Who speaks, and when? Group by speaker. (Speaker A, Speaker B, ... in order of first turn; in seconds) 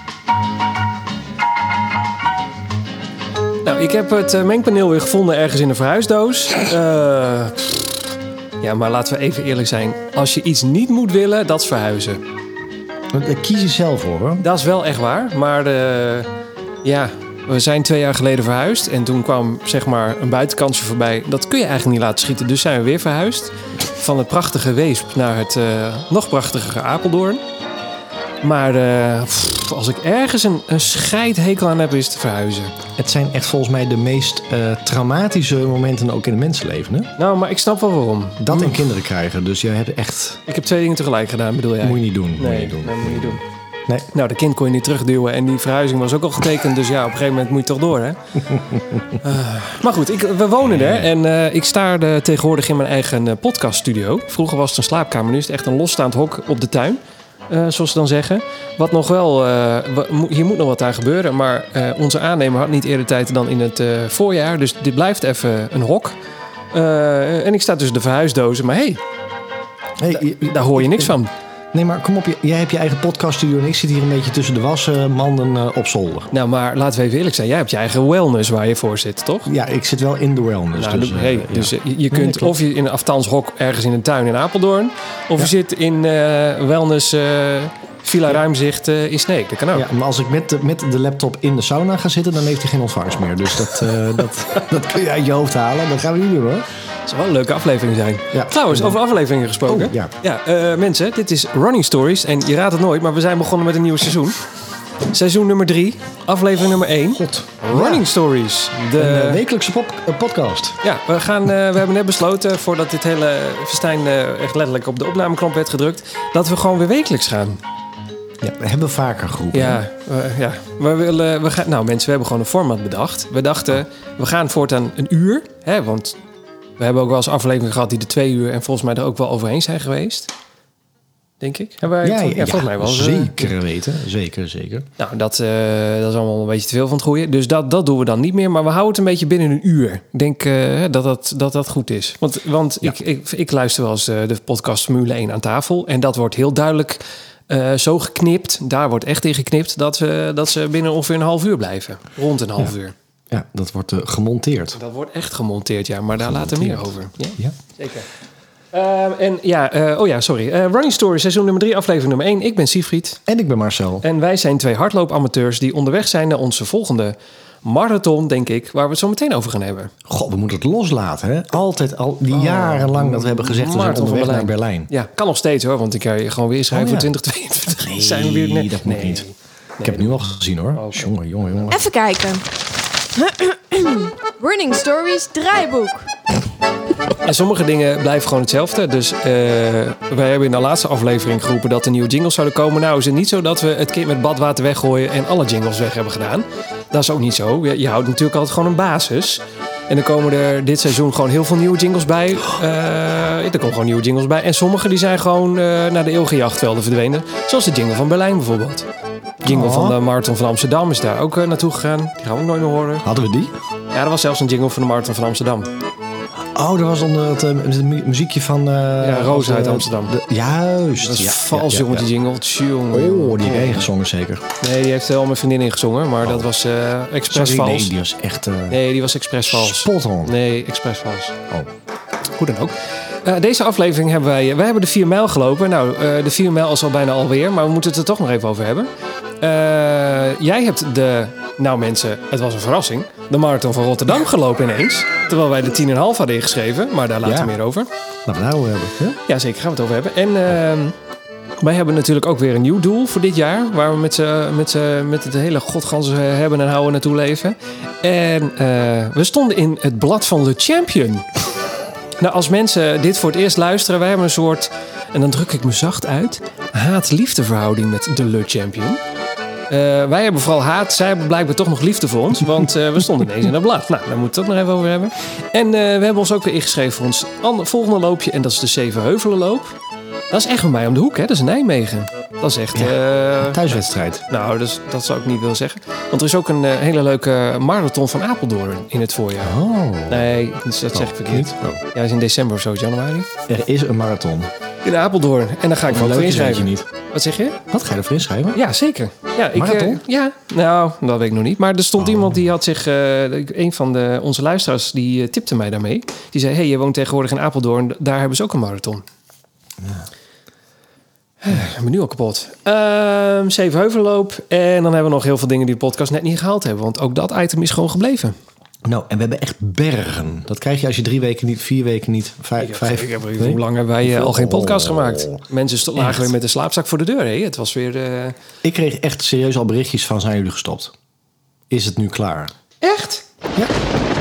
Speaker A: 3.6-8.0, 8.6-12.2, 14.4-16.3, 16.8-27.4, 28.4-32.8, 37.2-38.8, 40.5-43.4, 44.1-48.2, 49.2-66.2, 66.7-69.0, 70.2-71.3, 76.3-79.5, 80.8-89.9, 97.1-104.5, 105.1-109.4, 110.8-117.6, 119.5-126.2, 126.8-130.3, 131.4-133.6, 135.0-152.9, 154.8-158.1, 158.7-163.2, 164.0-169.9, 172.3-180.1, 180.8-181.1, 187.2-208.9, 209.4-213.1, 213.9-215.7, 219.0-220.2, 221.0-223.9, 224.6-227.9, 228.7-231.4, 232.4-238.9, 239.4-247.9, 249.3-250.9, 251.6-261.3, 262.2-269.0, 269.7-279.7, 280.3-289.6, 290.1-293.3, 294.8-297.6, 298.5-309.0, 311.4-318.4, 322.6-328.4, 332.8-333.2
Speaker B: 13.1-14.4, 33.0-37.1, 38.4-40.4, 41.8-44.1, 48.6-49.0, 50.6-51.1, 70.0-71.2, 71.7-76.3, 79.5-82.6, 89.7-96.7, 98.3-99.0, 99.7-100.1, 107.2-108.1, 109.0-110.8, 118.4-119.8, 132.0-134.9, 153.3-154.8, 156.2-157.6, 163.3-164.0, 170.1-174.9, 176.7-177.1, 177.7-179.2, 179.8-181.8, 209.5-210.0, 213.0-213.5, 216.6-222.1, 222.9-224.4, 227.3-228.8, 229.5-230.3, 247.2-247.5, 248.3-249.2, 282.8-284.2, 289.4-290.3, 290.9-291.8, 293.5-294.5, 295.9-296.9, 297.7-298.6, 299.5-300.0, 318.9-325.4, 326.0-326.3, 328.6-330.9, 331.7-332.5
Speaker C: 181.7-182.5, 183.1-186.1